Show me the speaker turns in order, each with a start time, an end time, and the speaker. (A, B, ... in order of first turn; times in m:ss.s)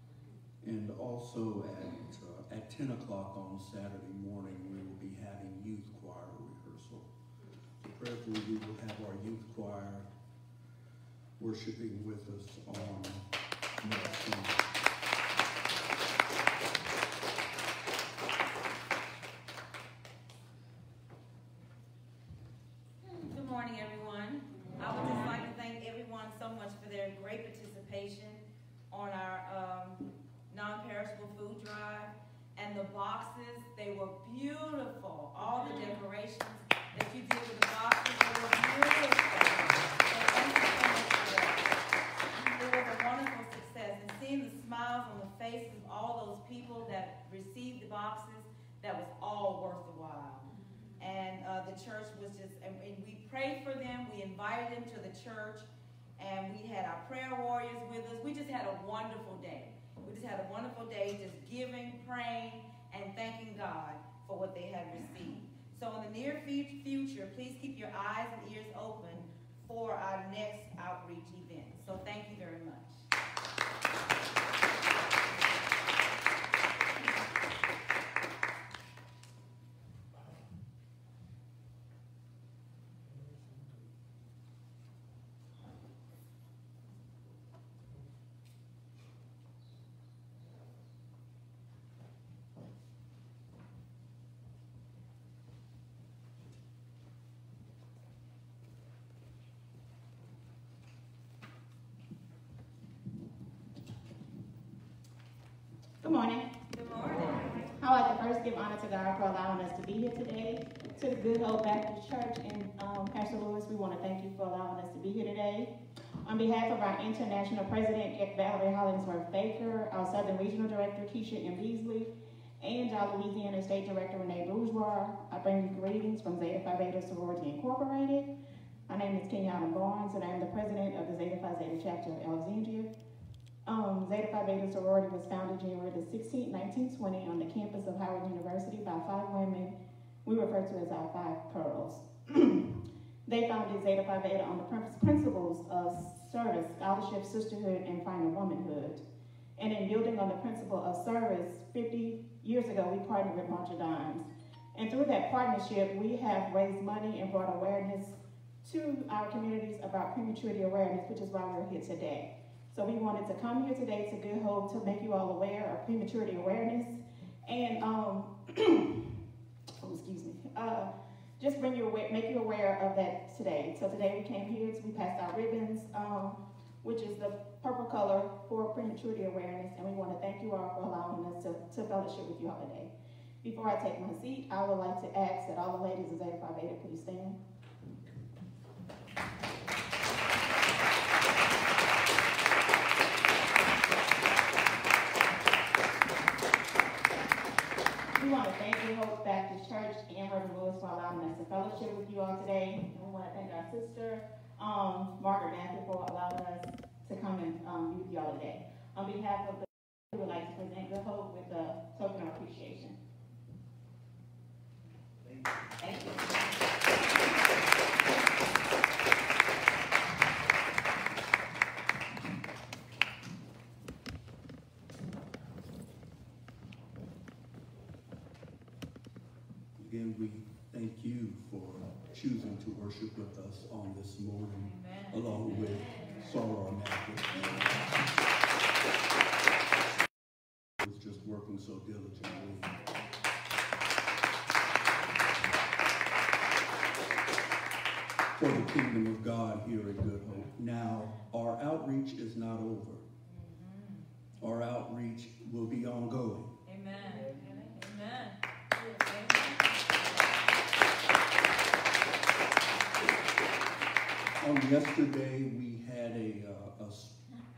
0:00.6-0:07.1 A
0:07.8-0:10.1 A
0:11.4-0:13.2 A
0:13.8-0:14.6 A
0:13.8-0:14.2 B
0:23.0-0:41.7 B
0:42.5-1:13.0 B
1:46.0-1:46.5 C
1:46.7-1:47.5 B
1:47.8-1:55.7 C
1:56.2-2:08.3 C
2:08.9-2:12.9 C
2:13.6-2:19.7 C
2:20.2-2:22.7 C
2:23.2-2:29.0 C
2:29.6-2:49.0 C
2:49.8-3:02.9 C
3:03.4-3:07.4 C
3:18.1-3:33.0 C
3:35.9-3:36.1 C
3:49.8-3:57.8 A
3:54.7-3:55.1 B
4:00.8-4:02.7 A
4:08.3-4:13.0 A
4:13.4-4:14.0 B
4:14.4-4:16.5 A
4:16.6-4:19.7 B
4:24.4-4:27.1 A